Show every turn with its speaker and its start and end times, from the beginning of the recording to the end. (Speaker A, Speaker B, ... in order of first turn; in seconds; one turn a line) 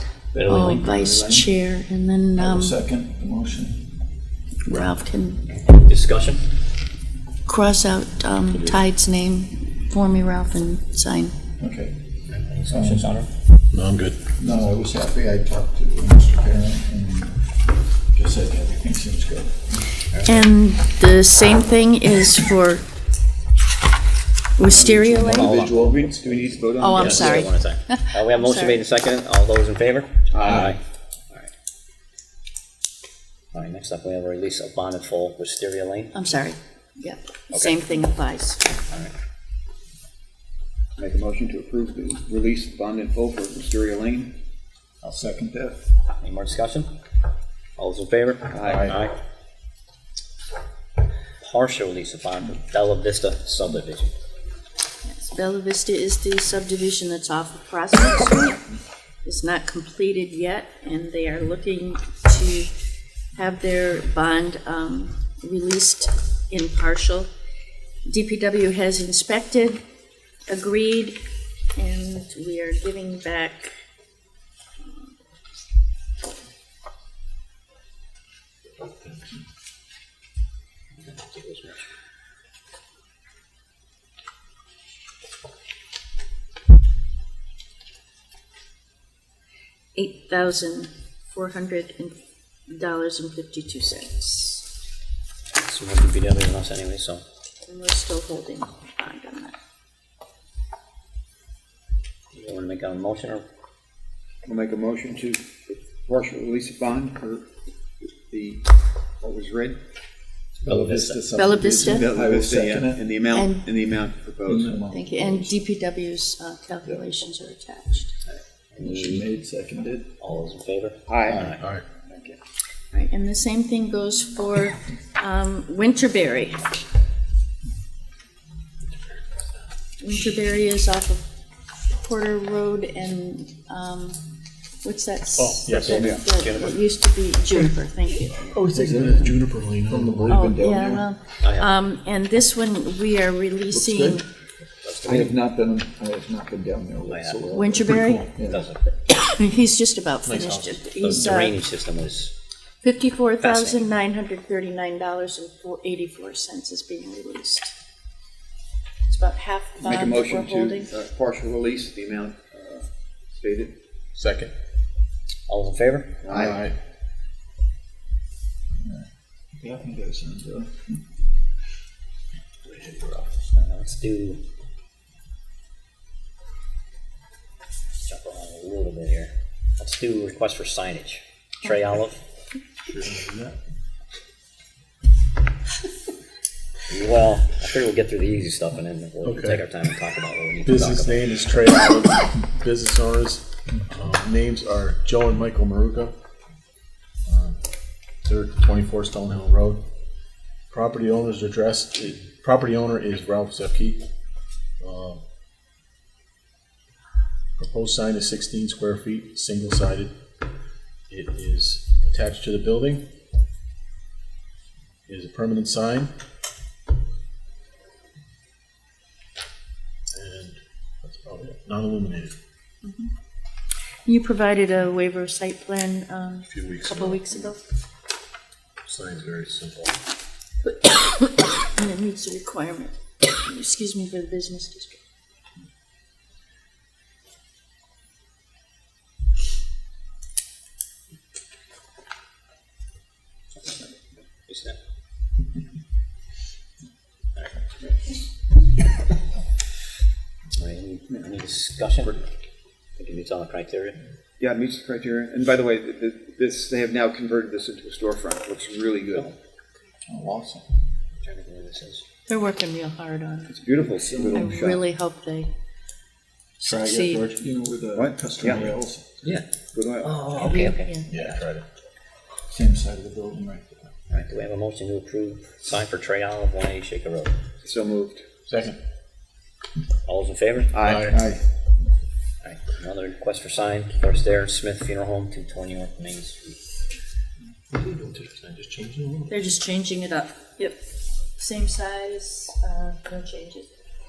Speaker A: 0.3-0.8
Speaker B: 0.5-2.8
Speaker C: 0.5-1.5
Speaker C: 2.4-3.9
Speaker B: 4.7-5.5
Speaker A: 5.5-6.4
Speaker B: 7.5-11.3
Speaker C: 11.6-11.9
Speaker A: 12.3-13.3
Speaker C: 12.7-13.2
Speaker D: 13.7-14.3
Speaker C: 14.3-17.5
Speaker C: 18.1-19.9
Speaker A: 20.1-20.5
Speaker B: 20.2-22.9
Speaker B: 24.6-25.5
Speaker C: 24.6-27.3
Speaker A: 25.1-25.9
Speaker E: 25.7-27.5
Speaker B: 26.8-28.8
Speaker A: 26.9-30.8
Speaker E: 30.3-30.7
Speaker C: 30.4-30.7
Speaker A: 33.5-36.3
Speaker B: 36.1-38.6
Speaker A: 37.5-37.8
Speaker E: 41.0-44.4
Speaker C: 45.0-45.8
Speaker A: 46.2-46.9
Speaker A: 47.8-49.1
Speaker E: 48.5-49.0
Speaker A: 51.4-54.1
Speaker B: 55.0-58.7
Speaker B: 59.2-62.7
Speaker B: 63.4-67.3
Speaker B: 68.1-69.8
Speaker B: 70.5-71.2
Speaker B: 71.8-73.7
Speaker B: 74.8-75.1
Speaker A: 81.0-81.8
Speaker B: 90.0-94.7
Speaker A: 95.6-97.2
Speaker B: 97.7-99.5
Speaker A: 102.3-103.4
Speaker E: 104.5-107.4
Speaker E: 108.2-108.7
Speaker E: 109.2-109.8
Speaker A: 110.6-111.2
Speaker C: 110.7-113.0
Speaker B: 111.3-112.1
Speaker E: 111.8-114.8
Speaker B: 113.3-113.7
Speaker C: 114.4-115.6
Speaker B: 114.9-118.1
Speaker A: 118.2-119.3
Speaker C: 118.8-120.1
Speaker A: 120.2-121.6
Speaker E: 121.1-121.5
Speaker D: 121.5-121.8
Speaker E: 122.0-122.4
Speaker B: 122.9-126.7
Speaker D: 128.9-129.5
Speaker B: 130.0-131.2
Speaker B: 131.9-134.2
Speaker B: 134.8-138.6
Speaker D: 135.4-136.0
Speaker A: 135.8-136.9
Speaker E: 135.9-136.2
Speaker D: 138.3-140.4
Speaker C: 138.7-141.1
Speaker B: 140.3-144.2
Speaker A: 141.4-141.7
Speaker C: 143.7-144.2
Speaker A: 144.8-145.4
Speaker C: 145.0-148.7
Speaker A: 147.1-147.4
Speaker B: 147.5-151.6
Speaker D: 147.9-148.2
Speaker A: 148.5-148.9
Speaker D: 150.3-150.9
Speaker A: 151.0-152.3
Speaker B: 152.8-157.7
Speaker A: 153.4-153.9
Speaker B: 159.1-160.9
Speaker E: 159.8-163.7
Speaker D: 164.2-164.5
Speaker A: 165.5-166.2
Speaker E: 166.2-166.6
Speaker D: 166.3-166.8
Speaker C: 168.8-171.0
Speaker D: 172.7-173.3
Speaker A: 173.5-174.4
Speaker A: 178.0-182.2
Speaker D: 182.9-183.6
Speaker A: 186.9-191.3
Speaker D: 189.2-189.6
Speaker D: 190.6-196.1
Speaker D: 197.3-197.6
Speaker D: 198.2-199.8
Speaker D: 200.7-204.1
Speaker D: 204.8-205.2
Speaker D: 207.6-210.1
Speaker D: 211.1-213.0
Speaker D: 215.1-216.1
Speaker D: 220.1-222.3
Speaker B: 222.8-223.1
Speaker B: 224.1-227.6
Speaker D: 226.5-227.5
Speaker D: 228.8-230.0
Speaker B: 230.6-235.0
Speaker A: 244.5-244.8
Speaker A: 250.6-252.2
Speaker A: 253.0-254.0
Speaker E: 254.4-259.4
Speaker C: 260.1-260.6
Speaker A: 261.2-262.0
Speaker B: 262.3-263.5
Speaker E: 263.5-264.8
Speaker C: 263.8-264.6
Speaker B: 264.3-265.5
Speaker B: 266.6-267.3
Speaker D: 266.6-267.4
Speaker C: 266.9-269.1
Speaker E: 267.9-268.7
Speaker E: 269.7-270.2
Speaker A: 270.0-271.3
Speaker B: 270.4-271.1
Speaker D: 271.1-271.6
Speaker C: 272.5-273.9
Speaker A: 274.1-277.3
Speaker E: 277.6-278.2
Speaker D: 278.5-278.8
Speaker A: 280.1-280.7
Speaker E: 280.7-281.1
Speaker D: 280.8-281.2
Speaker C: 281.1-281.4
Speaker A: 282.4-286.6
Speaker D: 287.7-289.5
Speaker B: 289.3-290.8
Speaker B: 291.4-293.7